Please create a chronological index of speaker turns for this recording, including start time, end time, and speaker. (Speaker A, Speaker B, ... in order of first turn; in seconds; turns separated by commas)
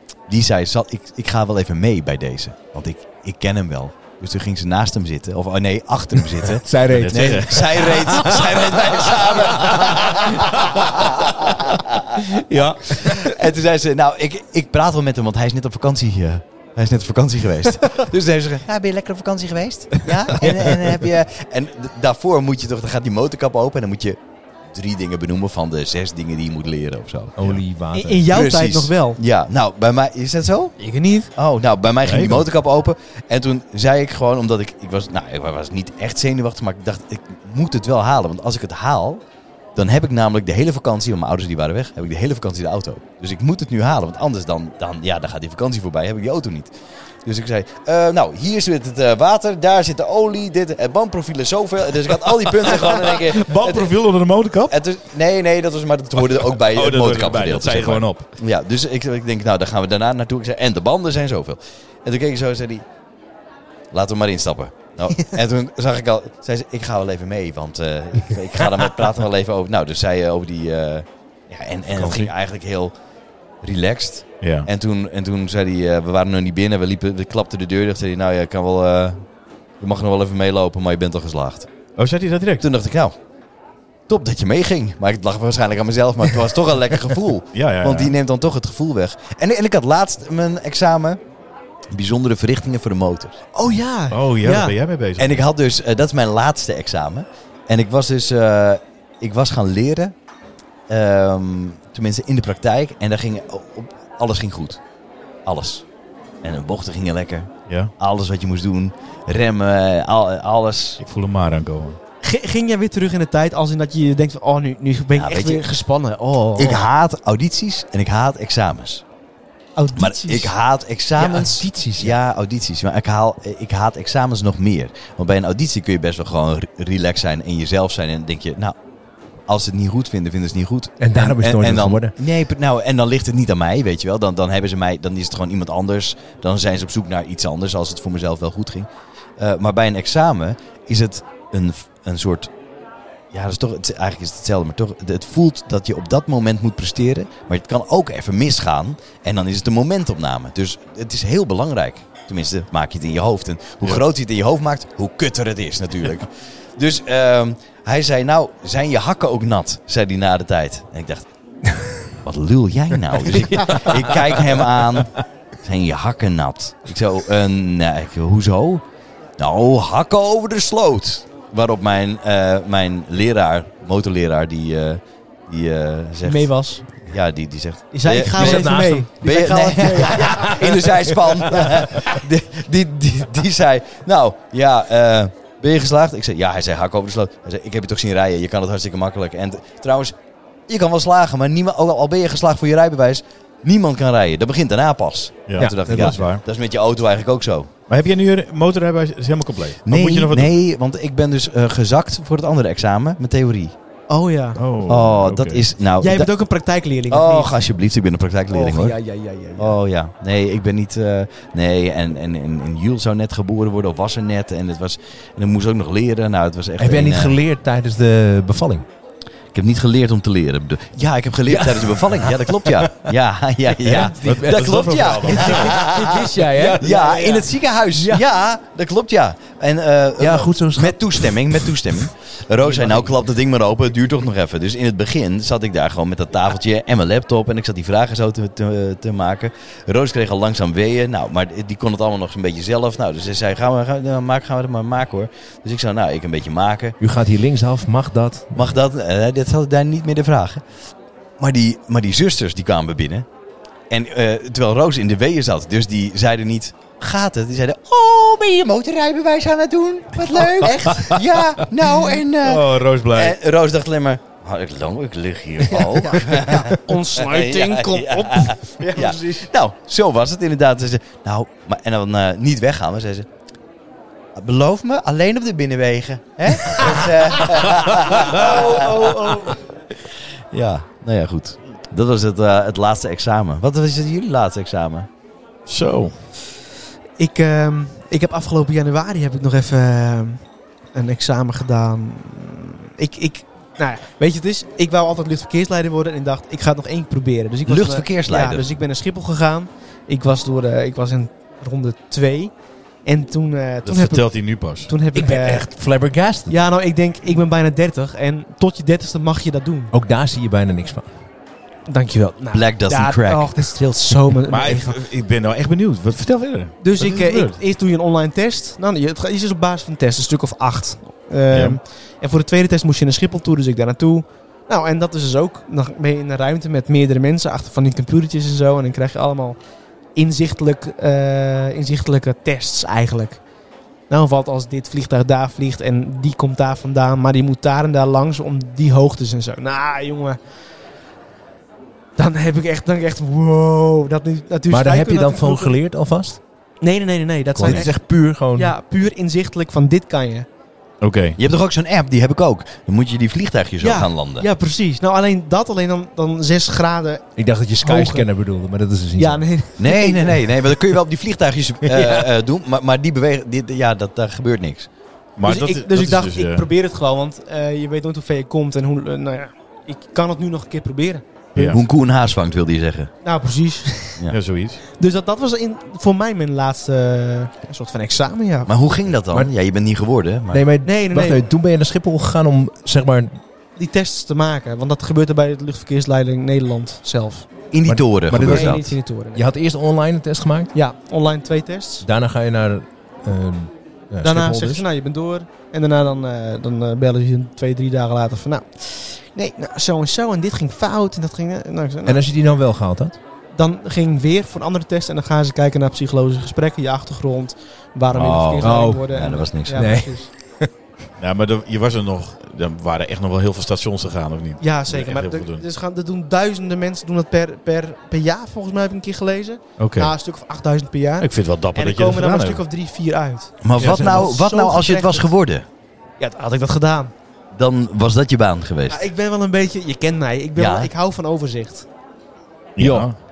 Speaker A: 0.3-12.2, Speaker B: 6.6-8.6, Speaker C: 6.9-8.3, Speaker C: 9.0-11.1, Speaker C: 12.2-13.3, Speaker A: 12.8-24.2, Speaker A: 24.7-27.4, Speaker B: 27.4-28.3, Speaker D: 27.9-29.2, Speaker A: 28.3-30.8, Speaker D: 30.8-31.3, Speaker A: 31.3-39.2, Speaker C: 32.0-32.4, Speaker A: 39.8-46.7, Speaker A: 47.2-53.9, Speaker C: 52.9-54.8, Speaker A: 54.7-62.9, Speaker C: 56.4-58.3, Speaker A: 63.9-72.9, Speaker C: 71.9-72.3, Speaker A: 73.6-79.2, Speaker C: 74.4-74.7, Speaker A: 79.8-81.7, Speaker C: 82.0-82.6, Speaker A: 82.6-83.2, Speaker A: 84.1-91.2, Speaker C: 87.5-88.1, Speaker A: 91.9-93.4, Speaker D: 93.5-94.8, Speaker C: 94.1-95.4, Speaker A: 95.2-100.1, Speaker A: 100.9-104.8, Speaker A: 105.5-105.9, Speaker A: 106.4-111.0, Speaker C: 111.0-112.0, Speaker D: 112.2-116.8, Speaker A: 115.1-115.7, Speaker A: 116.6-119.0, Speaker D: 119.8-120.5, Speaker A: 120.0-128.8, Speaker D: 121.2-121.4, Speaker B: 121.3-122.2, Speaker A: 129.5-142.5, Speaker B: 131.0-132.1, Speaker A: 143.3-161.3, Speaker A: 162.2-168.8, Speaker A: 169.4-190.2, Speaker D: 176.2-176.9, Speaker D: 177.9-180.8, Speaker B: 178.4-181.6, Speaker A: 190.7-197.7, Speaker C: 195.5-196.4, Speaker B: 195.9-196.2, Speaker C: 197.9-200.5, Speaker A: 199.9-203.8, Speaker D: 204.1-204.6, Speaker C: 204.6-205.6, Speaker A: 204.9-206.3, Speaker D: 206.0-207.6, Speaker A: 207.1-209.0, Speaker D: 208.5-209.8, Speaker A: 209.6-217.4, Speaker B: 216.8-218.9, Speaker A: 219.5-247.0, Speaker B: 221.5-223.1, Speaker B: 223.8-224.8, Speaker C: 224.0-225.9, Speaker D: 225.3-228.2, Speaker B: 226.3-226.8, Speaker B: 230.2-232.0, Speaker D: 232.6-233.0, Speaker B: 247.0-248.8, Speaker A: 248.6-250.6, Speaker A: 251.4-253.3, Speaker A: 253.9-273.3, Speaker C: 260.5-261.1, Speaker C: 262.4-263.4, Speaker D: 265.7-269.5, Speaker A: 274.4-279.3, Speaker D: 276.8-277.1, Speaker D: 278.1-279.6, Speaker A: 280.5-285.1, Speaker C: 285.6-286.1, Speaker D: 287.2-290.4, Speaker D: 290.9-302.5, Speaker A: 297.6-298.8, Speaker D: 303.1-305.7, Speaker C: 303.9-304.9, Speaker B: 305.1-306.6, Speaker D: 306.5-309.9, Speaker B: 309.9-311.1, Speaker D: 311.9-315.0, Speaker A: 312.5-313.6, Speaker C: 314.5-317.6, Speaker D: 316.8-329.6, Speaker C: 321.5-321.8, Speaker D: 330.1-333.4, Speaker D: 334.1-340.4, Speaker D: 342.2-345.8, Speaker B: 344.7-346.4, Speaker D: 346.8-350.5, Speaker B: 347.6-348.8, Speaker C: 347.6-347.9, Speaker C: 351.0-351.4, Speaker A: 351.4-354.5, Speaker D: 353.8-357.3, Speaker B: 357.4-359.4, Speaker D: 357.8-358.3, Speaker D: 359.2-360.5, Speaker A: 359.8-364.9, Speaker C: 365.4-366.7, Speaker D: 365.4-371.2, Speaker C: 371.6-371.8, Speaker A: 371.6-373.1, Speaker D: 373.2-374.2, Speaker C: 374.3-374.8, Speaker D: 375.0-378.7, Speaker A: 378.6-380.6, Speaker B: 380.5-383.4, Speaker D: 380.8-381.4, Speaker D: 383.8-387.5, Speaker A: 387.7-388.9, Speaker B: 387.9-390.7, Speaker D: 388.4-389.4, Speaker D: 390.7-392.1, Speaker B: 392.0-394.9, Speaker D: 394.2-402.2, Speaker B: 402.1-403.2, Speaker D: 403.5-410.3, Speaker A: 408.1-409.9, Speaker B: 408.6-410.7, Speaker C: 411.2-415.6, Speaker D: 414.6-425.3, Speaker C: 419.8-420.1, Speaker C: 421.2-422.6, Speaker A: 423.6-425.6, Speaker B: 423.8-424.2, Speaker D: 426.2-427.1, Speaker A: 427.5-429.0, Speaker D: 428.9-431.9, Speaker A: 430.6-430.9, Speaker C: 432.8-433.1, Speaker B: 432.8-433.1